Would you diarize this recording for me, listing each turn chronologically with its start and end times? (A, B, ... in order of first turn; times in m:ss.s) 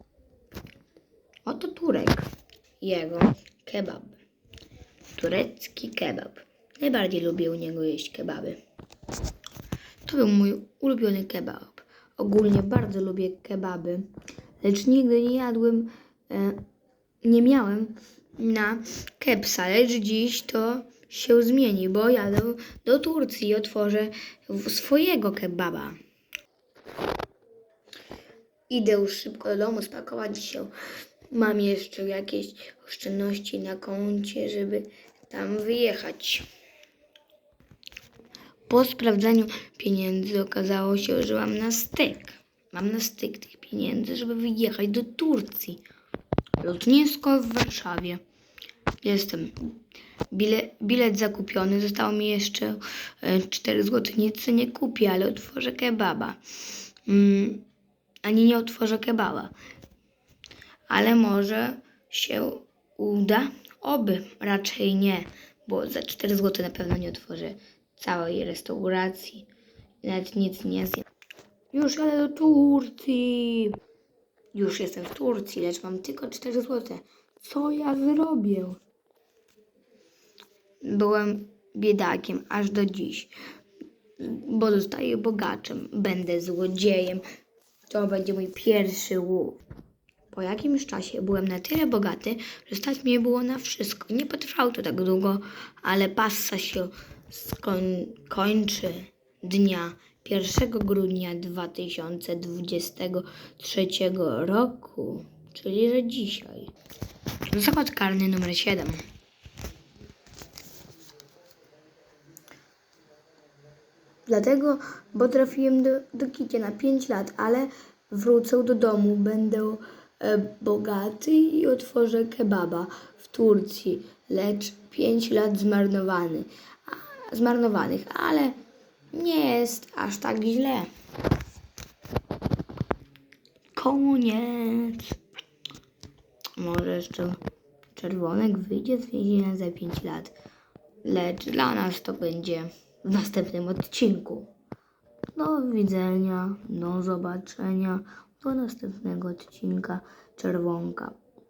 0:01.4-0:02.3 A
0:02.8-0:04.2 A
0:05.1-0:08.6 A
0:10.0-0:14.1 A
0:14.6-0:16.6 A
0:17.2-0:26.0 A
0:28.7-0:30.7 A
0:31.3-0:36.4 A
0:38.7-0:45.8 A
0:46.6-0:48.2 A
0:49.0-0:49.7 A
0:50.3-0:56.4 A
0:57.0-0:57.6 A
0:58.2-0:59.5 A
1:00.9-1:09.5 A
1:10.0-1:11.0 A
1:11.7-1:13.8 A
1:14.5-1:18.8 A
1:20.8-1:23.3 A
1:24.2-1:27.2 A
1:27.9-1:29.6 A
1:30.3-1:46.7 A
1:47.5-1:49.0 A
1:54.3-2:08.6 A
2:09.1-2:10.9 A
2:13.8-2:15.2 A
2:16.6-2:17.4 A
2:17.9-2:20.3 A
2:21.0-2:24.5 A
2:25.4-2:31.2 A